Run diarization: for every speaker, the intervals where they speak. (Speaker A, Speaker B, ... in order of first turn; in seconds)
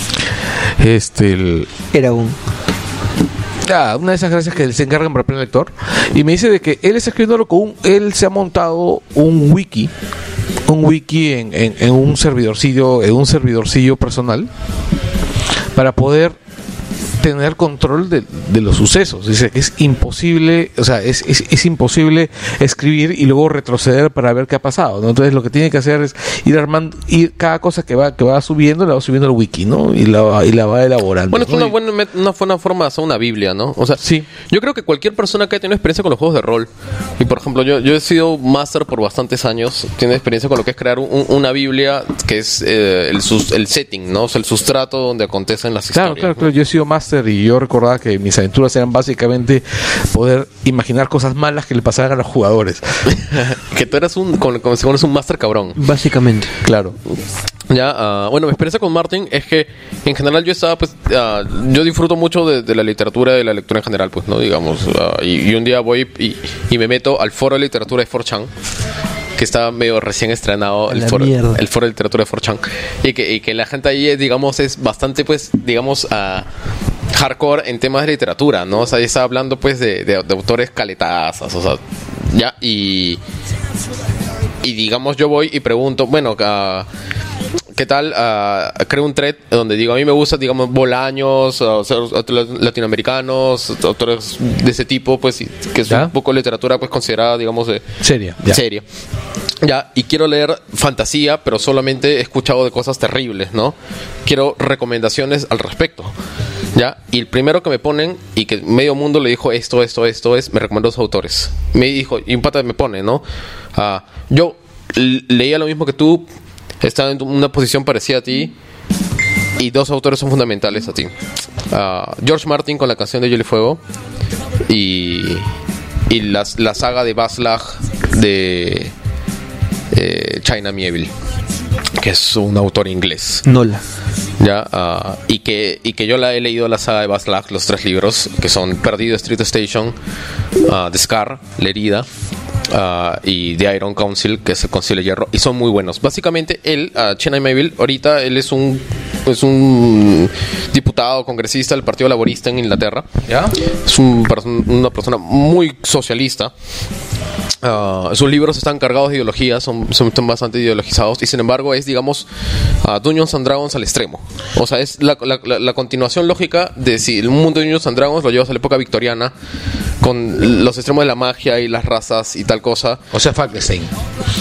Speaker A: 0.8-1.7, 3.6-9.9, 10.7-14.5, 15.7-16.4, 17.2-31.7, 34.0-34.3, 45.9-53.1, 56.6-57.0, 95.9-96.1, 98.0-98.6, 153.2-153.6, 173.1-173.9
Speaker B: 1.9-2.4, 55.8-56.6, 70.9-71.6, 133.4-133.8
Speaker C: 31.3-46.5, 53.1-55.8, 57.7-68.5, 69.4-76.5, 77.1-83.2, 84.6-86.9, 87.7-97.8, 98.4-98.8, 99.6-103.7, 104.3-106.1, 106.7-113.2, 113.7-116.3, 116.8-118.5, 119.6-121.1, 121.7-123.8, 124.7-125.5, 126.1-128.9, 129.9-131.1, 132.0-133.4, 134.4-139.9, 140.6-142.1, 142.7-153.1, 153.7-156.5, 157.6-162.3, 162.8-169.3, 170.0-173.1